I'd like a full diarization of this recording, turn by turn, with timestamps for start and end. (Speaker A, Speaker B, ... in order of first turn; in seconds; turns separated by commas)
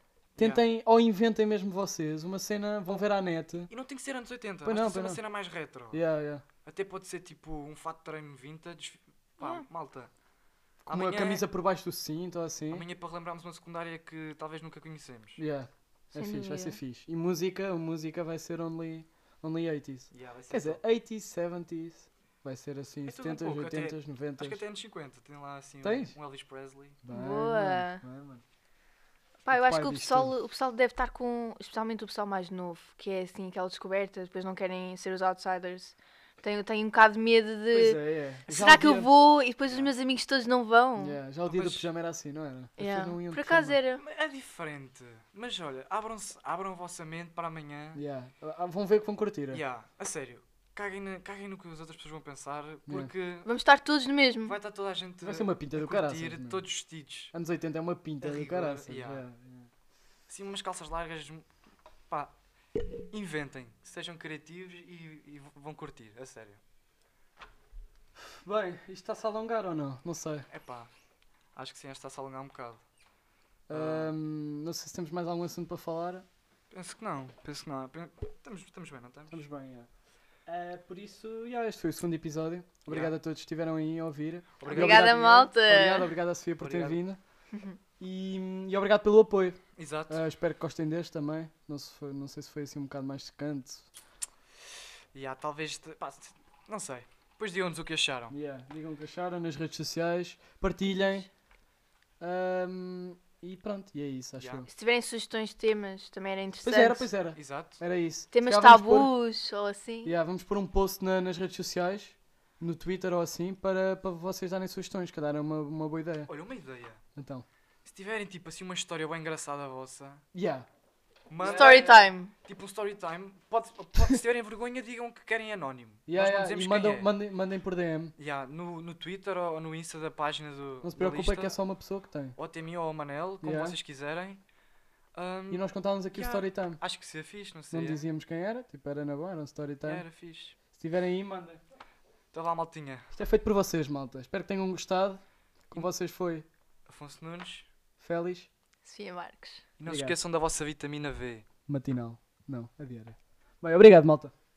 Speaker A: 0.4-0.7, Speaker B: 0.4-3.7, Speaker A: 3.7-6.0, Speaker B: 4.6-5.2, Speaker B: 5.9-6.5, Speaker A: 6.7-10.1, Speaker C: 9.4-9.7, Speaker A: 10.8-11.5, Speaker B: 10.9-12.9, Speaker A: 12.7-15.4, Speaker B: 15.4-24.6, Speaker C: 16.1-16.8, Speaker A: 20.1-20.8, Speaker A: 23.1-27.0, Speaker B: 25.8-26.1, Speaker B: 27.0-28.4, Speaker C: 27.1-28.0, Speaker C: 29.4-41.2, Speaker B: 29.5-30.4, Speaker B: 37.7-39.1, Speaker A: 39.7-39.9, Speaker B: 41.0-43.8, Speaker A: 41.4-41.9, Speaker C: 42.8-44.0, Speaker A: 44.0-48.0, Speaker B: 48.0-49.6, Speaker A: 49.5-53.5, Speaker B: 52.9-53.1, Speaker C: 53.5-54.6, Speaker A: 54.4-57.3, Speaker B: 55.2-56.7, Speaker B: 57.3-59.7, Speaker A: 58.2-59.3, Speaker A: 60.3-61.5, Speaker A: 62.1-66.6, Speaker B: 68.2-70.5, Speaker A: 70.5-70.9, Speaker A: 71.5-72.8, Speaker B: 73.7-76.3, Speaker A: 73.7-74.1, Speaker A: 76.7-79.5, Speaker B: 79.3-79.9, Speaker B: 80.5-87.2, Speaker A: 82.9-83.2, Speaker A: 84.6-85.2, Speaker C: 84.7-86.1, Speaker A: 86.6-87.0, Speaker C: 87.5-87.8, Speaker B: 88.0-93.9, Speaker A: 89.8-90.2, Speaker A: 95.1-98.4, Speaker B: 98.3-101.3, Speaker C: 100.9-101.3, Speaker B: 102.2-104.7, Speaker A: 104.4-104.7, Speaker C: 104.7-107.1, Speaker B: 106.6-109.2, Speaker A: 107.3-107.8, Speaker C: 108.3-110.1, Speaker B: 110.0-116.3, Speaker A: 116.3-117.0, Speaker B: 117.2-117.5, Speaker A: 117.8-120.2, Speaker B: 120.3-120.7, Speaker A: 121.3-127.1, Speaker B: 121.4-122.1, Speaker C: 121.4-122.3, Speaker B: 126.1-128.1, Speaker A: 128.2-131.6, Speaker B: 130.8-132.4, Speaker A: 132.4-134.4, Speaker B: 133.4-133.8, Speaker A: 135.2-138.1, Speaker B: 135.5-136.8, Speaker B: 137.7-140.1, Speaker A: 139.8-140.6, Speaker B: 140.8-141.6, Speaker A: 142.3-143.1, Speaker B: 143.1-146.5, Speaker A: 146.9-147.7, Speaker B: 148.0-148.5, Speaker C: 148.8-149.7, Speaker A: 149.8-151.4, Speaker B: 149.8-150.2, Speaker B: 151.7-154.3